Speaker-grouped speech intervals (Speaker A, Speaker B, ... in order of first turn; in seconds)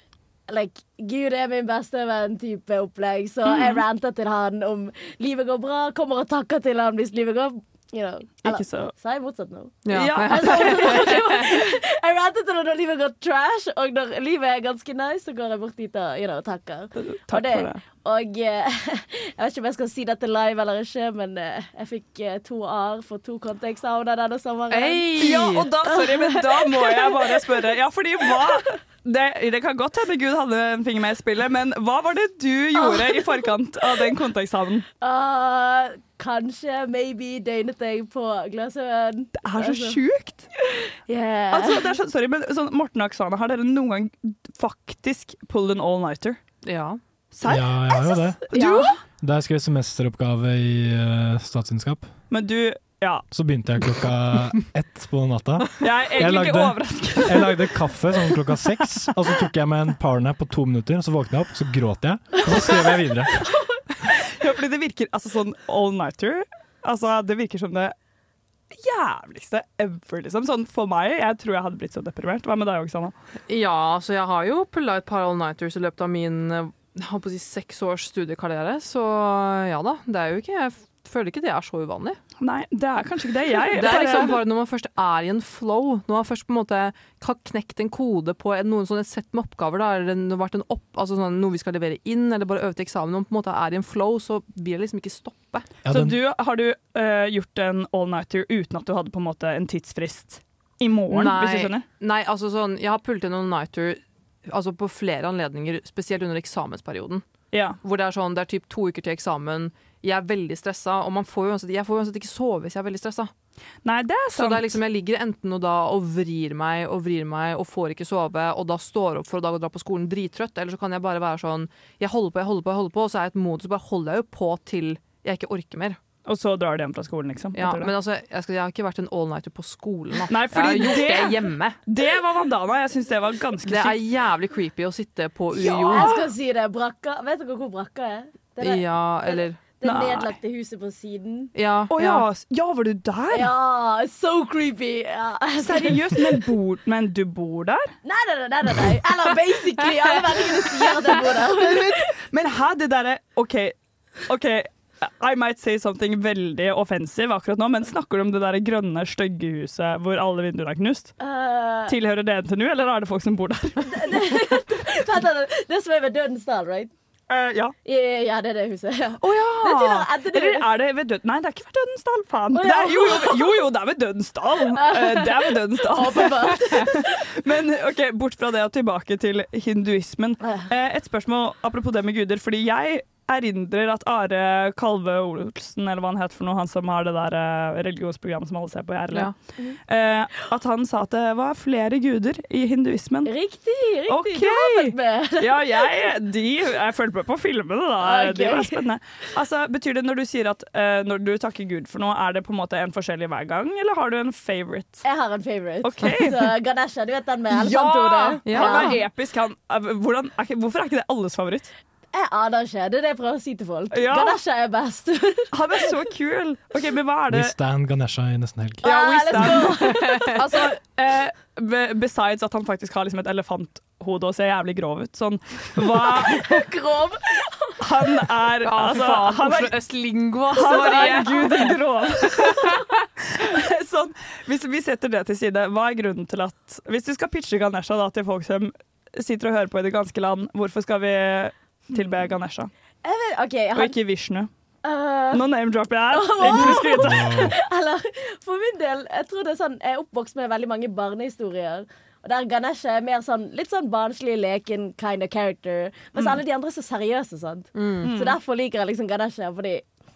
Speaker A: 0.5-25.1, 25.9-27.4, 32.8-33.2, 35.0-40.0, 41.1-41.9, 48.5-48.9, 135.6-141.5, 143.3-146.4, 148.0-152.1, 161.2-161.9, 163.8-166.9, 167.8-170.7, 172.5-173.6, 174.8-177.2, 193.2-195.8, 198.0-198.8, 205.0-209.0, 212.1-215.5, 218.8-220.4, 226.0-227.8, 243.0-243.9, 244.8-245.4, 246.1-259.8
Speaker B: 3.5-3.8, 8.4-8.9, 9.9-11.2, 16.9-17.8, 25.2-34.9, 39.4-40.5, 41.5-46.4, 47.3-48.9, 52.3-53.2, 55.8-57.7, 64.4-67.9, 68.7-73.1, 82.4-84.4, 95.9-101.8, 107.5-107.8, 113.8-114.8, 126.2-127.9, 130.3-134.0, 135.8-136.2, 139.8-140.3, 141.9-143.5, 145.6-147.9, 151.5-153.7, 154.2-161.1, 161.9-164.4, 167.3-167.7, 169.2-189.3, 189.9-193.3, 194.1-205.0, 205.8-206.5, 207.5-211.7, 213.9-214.4, 215.5-217.5, 218.8-226.6, 227.8-229.7, 230.5-232.8, 233.3-242.7, 243.7-244.5, 245.3-247.4, 258.0-258.4
Speaker C: 9.8-11.3, 24.7-25.7, 46.6-47.0, 73.5-82.2, 83.7-95.7, 101.1-107.2, 107.8-113.3, 114.3-126.0, 127.5-131.8, 133.7-136.2, 138.6-139.6, 141.5-142.2, 208.4-209.0, 219.9-220.4, 228.6-231.8, 232.4-232.8, 257.7-258.1
Speaker D: 47.4-48.4, 49.2-52.1, 53.3-63.4, 95.8-96.2, 217.3-218.8, 246.5-247.5